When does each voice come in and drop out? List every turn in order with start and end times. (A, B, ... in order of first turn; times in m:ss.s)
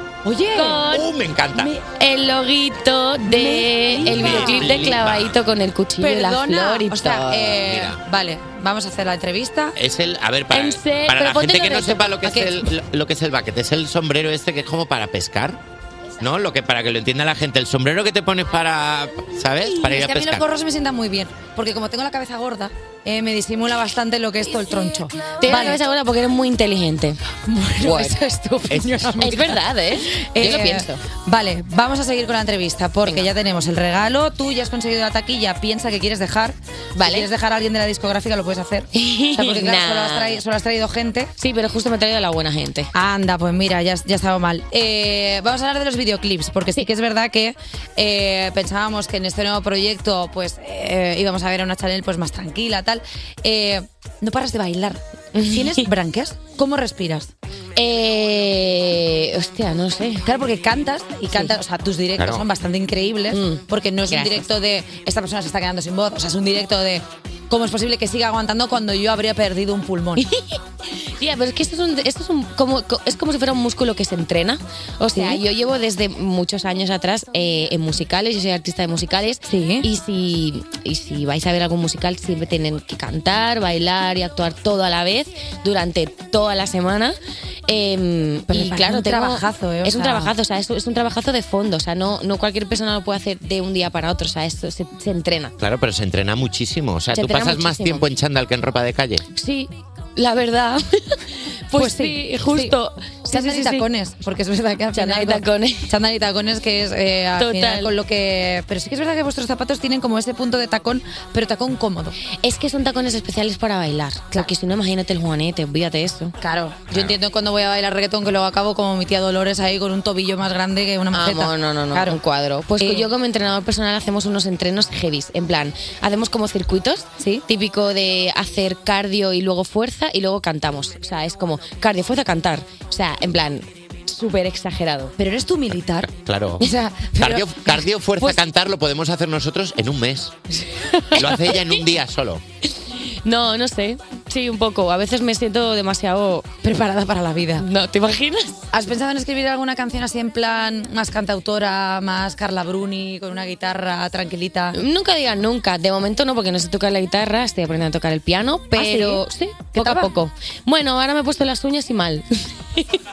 0:00.2-0:00.9 A
0:00.5-0:01.1 B
0:00.9-0:01.7 C
0:01.6-0:07.5 B
0:03.2-0:04.9 A
0:04.1-0:05.4 C
0:06.0-0:09.8 A
0:07.6-0:08.0 C
0:09.8-0:15.6 C
0:10.5-0:12.5 B
0:16.2-0:20.4 C
0:19.6-0:25.8 A
0:25.4-0:27.2 B
0:27.5-0:41.3 A
0:27.8-0:28.2 B
0:29.2-0:31.0 B
0:33.1-0:33.3 B
0:37.0-0:37.3 B
0:39.0-0:40.4 B
0:41.4-0:42.9 B
0:42.9-0:57.3 A
0:55.4-0:55.8 B
0:57.8-1:00.2 B
1:00.2-1:10.3 A
1:01.3-1:01.6 B
1:02.2-1:02.4 C
1:03.3-1:04.5 B
1:10.2-1:10.6 B
1:11.2-1:27.2 B
1:15.1-1:15.4 A
1:19.5-1:19.9 A
1:27.7-1:35.5 B
1:28.5-1:30.3 A
1:35.6-1:39.3 C
1:37.1-1:38.0 B
1:39.4-1:43.9 B
1:41.8-1:42.8 A
1:43.3-1:52.2 A
1:44.9-1:45.9 B
1:47.4-1:47.9 B
1:52.4-1:56.4 B
1:56.4-2:02.2 A
1:56.9-1:57.2 C
2:01.1-2:15.1 B
2:02.8-2:03.1 A
2:07.2-2:07.4 A
2:15.2-2:16.1 A
2:16.0-2:20.4 C
2:16.6-2:17.8 A
2:20.8-2:21.7 B
2:21.1-2:22.4 C
2:22.8-2:26.5 B
2:26.6-2:27.7 A
2:27.6-2:28.6 B
2:28.7-2:34.8 A
2:34.7-2:43.0 B
2:38.7-2:39.2 A
2:39.8-2:40.1 A